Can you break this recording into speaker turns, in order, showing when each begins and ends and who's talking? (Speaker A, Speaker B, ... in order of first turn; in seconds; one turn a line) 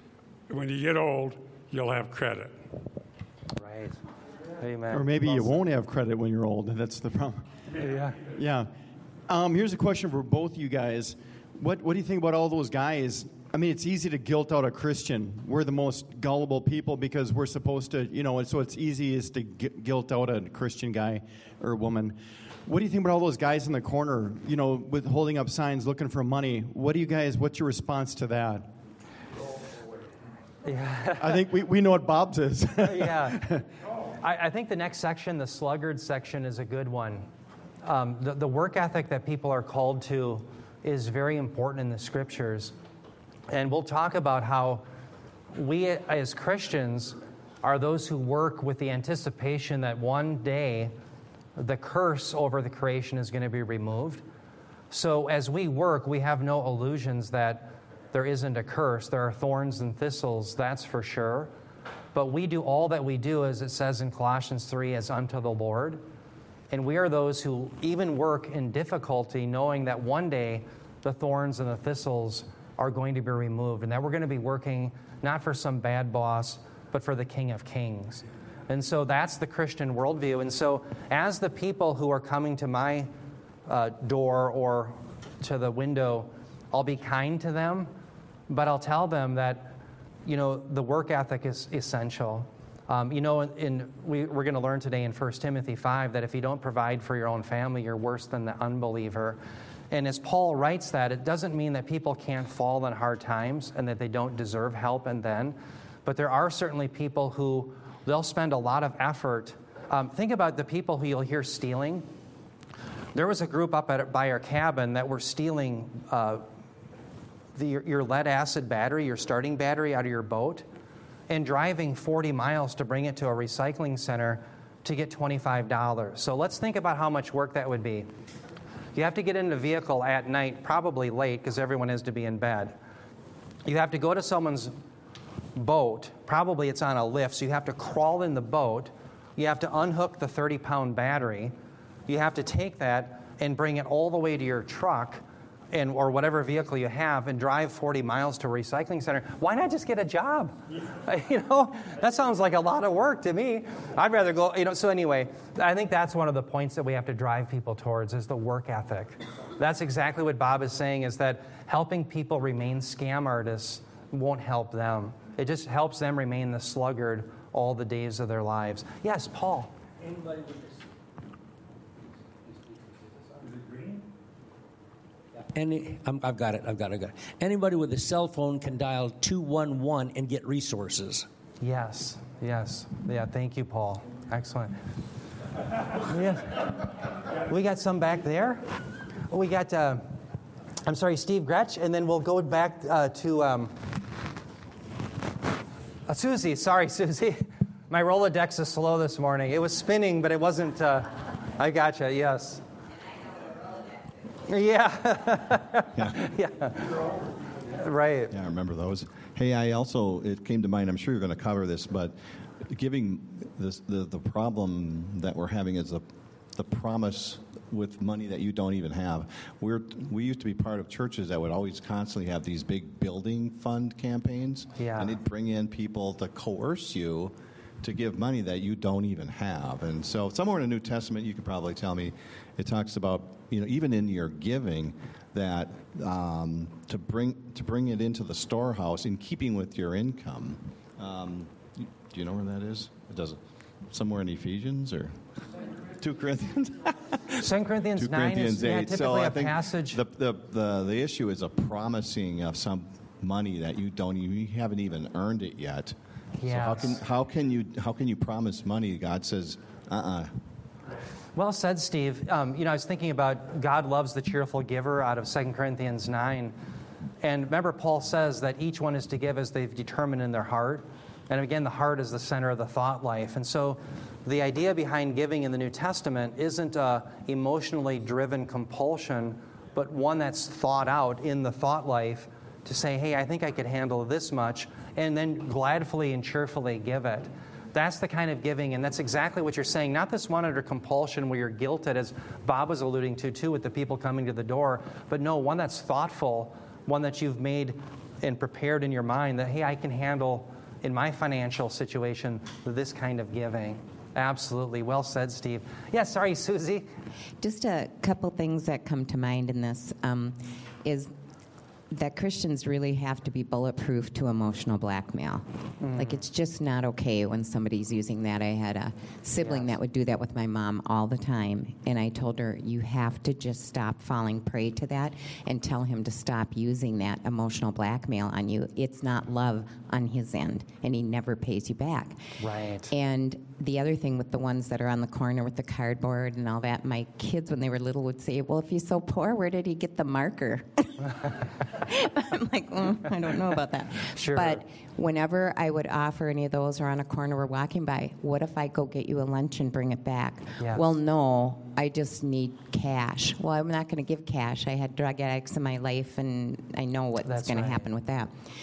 Speaker A: 0.5-2.5
Speaker B: 3.6-4.0
Speaker B: 4.6-5.6
Speaker C: 4.9-7.4
Speaker B: 7.8-8.2
Speaker C: 8.3-8.7
Speaker C: 9.3-28.7
Speaker B: 30.6-31.4
Speaker C: 31.2-33.6
Speaker B: 32.8-33.4
Speaker B: 34.2-37.3
Speaker B: 37.8-42.7
Speaker B: 43.5-44.8
Speaker B: 45.5-50.9
Speaker B: 51.6-54.2
Speaker B: 54.9-61.5
Speaker B: 62.1-66.0
Speaker B: 66.7-83.1
Speaker B: 83.7-87.9
Speaker B: 88.5-99.4
Speaker B: 99.9-112.1
Speaker B: 113.2-116.4
Speaker B: 117.5-120.7
Speaker B: 121.3-128.1
Speaker B: 128.9-132.8
Speaker B: 133.7-134.7
Speaker B: 135.6-141.5
Speaker B: 142.1-169.7
Speaker D: 175.6-181.3
Speaker B: 181.6-184.8
Speaker B: 186.0-186.8
Speaker B: 187.4-188.7
Speaker B: 189.3-190.1
Speaker B: 190.8-193.7
Speaker B: 196.1-202.6
Speaker B: 204.5-207.0
Speaker E: 205.9-206.2
Speaker B: 207.8-208.3
Speaker E: 208.3-245.2
Speaker B: 224.8-225.2
Speaker E: 246.0-247.4
Speaker B: 247.4-250.0
Speaker E: 247.9-260.3
Speaker B: 256.4-257.0
Speaker B: 261.4-266.6
Speaker B: 267.2-306.9
Speaker F: 307.4-311.1
Speaker F: 311.9-332.2
Speaker B: 315.8-316.2
Speaker B: 319.4-319.7
Speaker B: 332.4-332.9
Speaker F: 332.9-341.2
Speaker F: 341.8-358.3
Speaker B: 344.1-344.6
Speaker B: 350.6-350.9
Speaker B: 357.2-357.9